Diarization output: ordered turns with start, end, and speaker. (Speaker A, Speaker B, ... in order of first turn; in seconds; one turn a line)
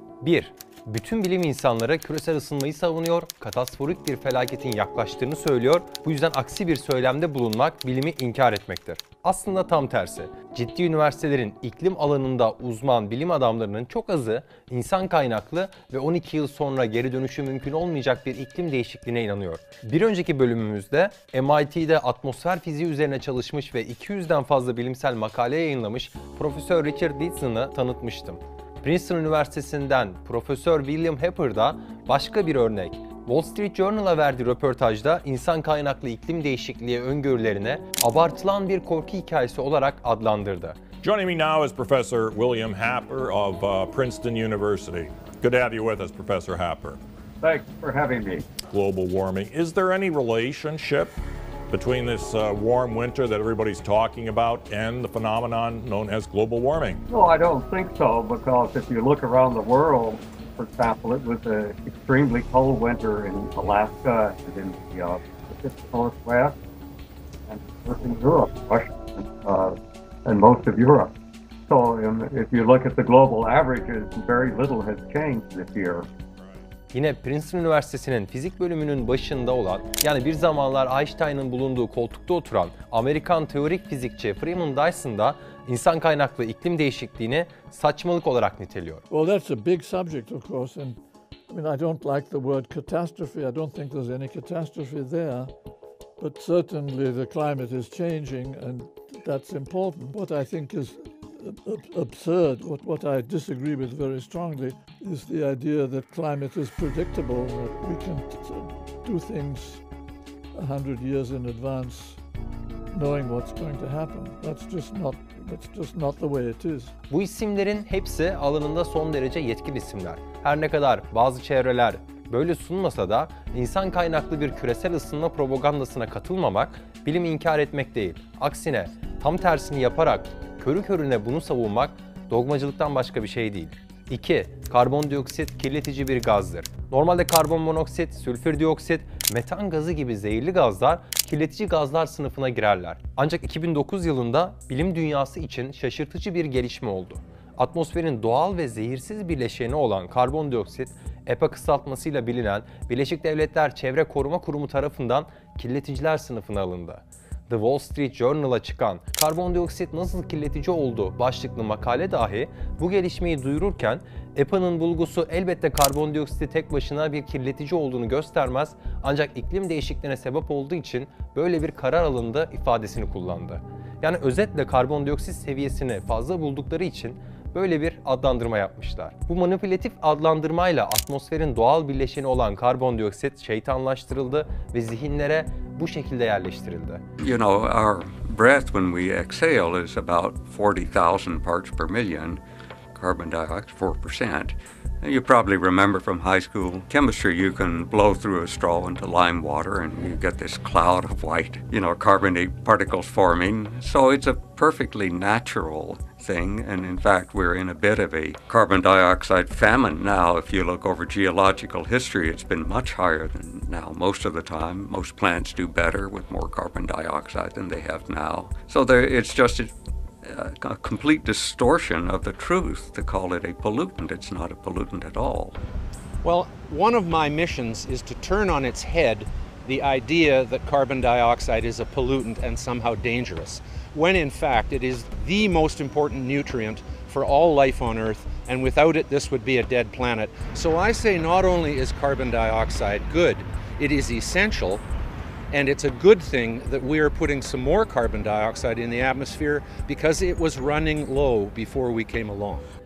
Speaker A: 0.2-40.8
Speaker B: 41.0-47.0
Speaker C: 47.4-48.5
Speaker B: 48.7-51.1
Speaker B: 51.7-57.0
Speaker C: 57.1-66.6
Speaker C: 67.5-71.1
Speaker C: 71.7-76.1
Speaker A: 76.9-89.0
Speaker D: 89.1-95.5
Speaker D: 96.2-109.8
Speaker D: 110.5-112.2
Speaker D: 112.9-116.9
Speaker A: 117.1-187.0
Speaker E: 187.2-192.4
Speaker E: 192.9-219.7
Speaker E: 220.2-225.6
Speaker F: 226.2-244.8
Speaker F: 245.5-252.7